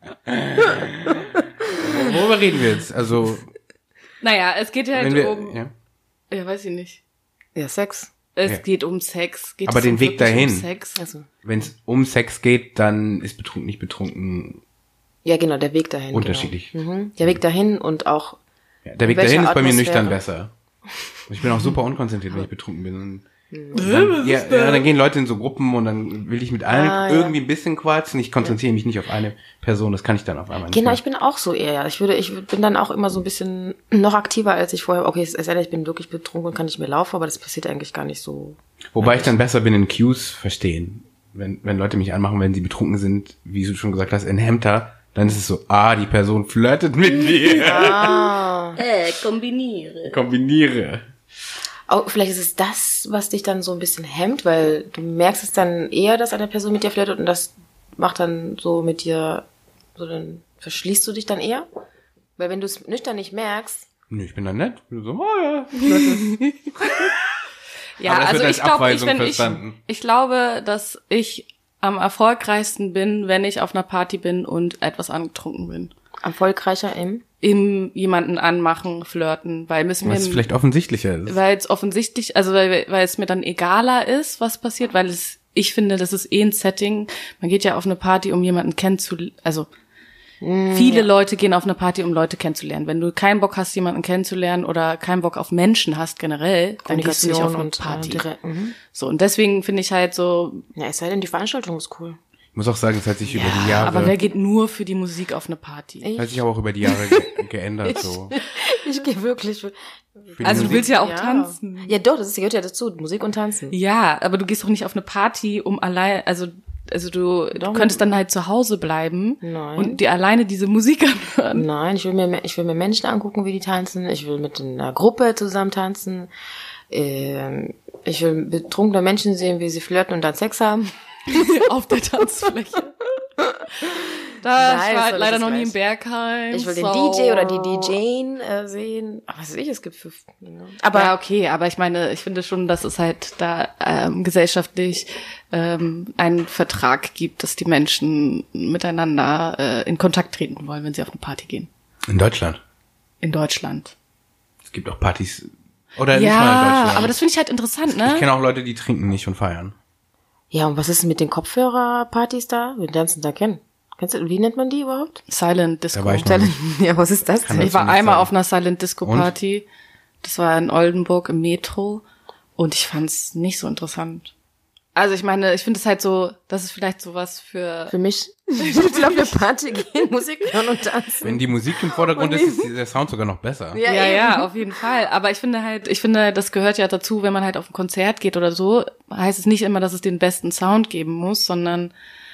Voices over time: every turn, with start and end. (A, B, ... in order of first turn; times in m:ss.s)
0:00.2-0:03.5 A
0:04.2-0:05.6 B
0:04.9-0:05.7 A
0:06.3-0:07.0 B
0:07.6-0:08.1 C
0:08.4-0:11.0 B
0:09.6-0:10.7 A
0:11.0-0:11.3 C
0:11.4-0:14.6 A
0:15.2-0:18.4 C
0:16.1-0:16.7 A
0:18.8-0:20.5 A
0:19.0-0:20.2 C
0:21.3-0:31.0 A
0:23.5-0:23.9 C
0:23.8-0:24.8 B
0:26.7-0:27.4 C
0:30.7-0:39.3 C
0:38.9-0:48.2 A
0:47.6-0:48.8 C
0:48.8-0:50.0 B
0:50.0-0:51.0 A
0:51.9-0:59.4 C
1:00.0-1:01.6 C
1:02.4-1:03.8 C
1:04.1-1:07.3 A
1:08.0-1:15.9 B
1:08.0-1:09.8 A
1:16.2-1:17.2 C
1:17.4-1:20.4 B
1:20.0-1:21.4 A
1:21.2-1:29.7 B
1:30.4-1:31.1 C
1:30.7-1:38.2 B
1:36.8-1:38.8 C
1:38.9-1:40.6 B
1:40.7-1:42.2 C
1:42.5-1:44.2 A
1:43.3-1:44.1 C
1:43.6-1:46.1 B
1:46.0-1:47.2 C
1:46.2-1:48.3 A
1:47.9-1:53.8 C
1:50.4-1:50.8 A
1:50.4-1:51.9 B
1:53.7-2:01.6 B
1:57.5-1:58.0 C
1:59.4-2:00.0 C
2:01.5-2:06.3 C
2:06.9-2:10.9 C
2:11.3-2:13.1 B
2:13.8-2:17.9 B
2:13.8-2:15.7 C
2:16.5-2:21.1 C
2:20.9-2:31.7 B
2:32.1-2:32.6 A
2:33.2-2:33.9 B
2:34.6-2:37.2 A
2:36.1-2:38.2 B
2:37.9-2:39.7 A
2:40.5-2:45.2 C
2:45.3-2:46.3 B
2:45.9-2:46.5 A
2:46.2-2:47.7 C
2:47.4-2:48.3 A
2:47.6-2:49.6 B
2:49.0-2:49.3 A
2:50.2-2:52.0 B
2:52.6-2:54.3 B
2:54.9-2:57.9 B
2:57.9-3:01.4 C
2:58.6-2:59.3 B
3:01.2-3:03.8 A
3:01.9-3:02.7 C
3:03.7-3:04.6 C
3:03.8-3:11.9 B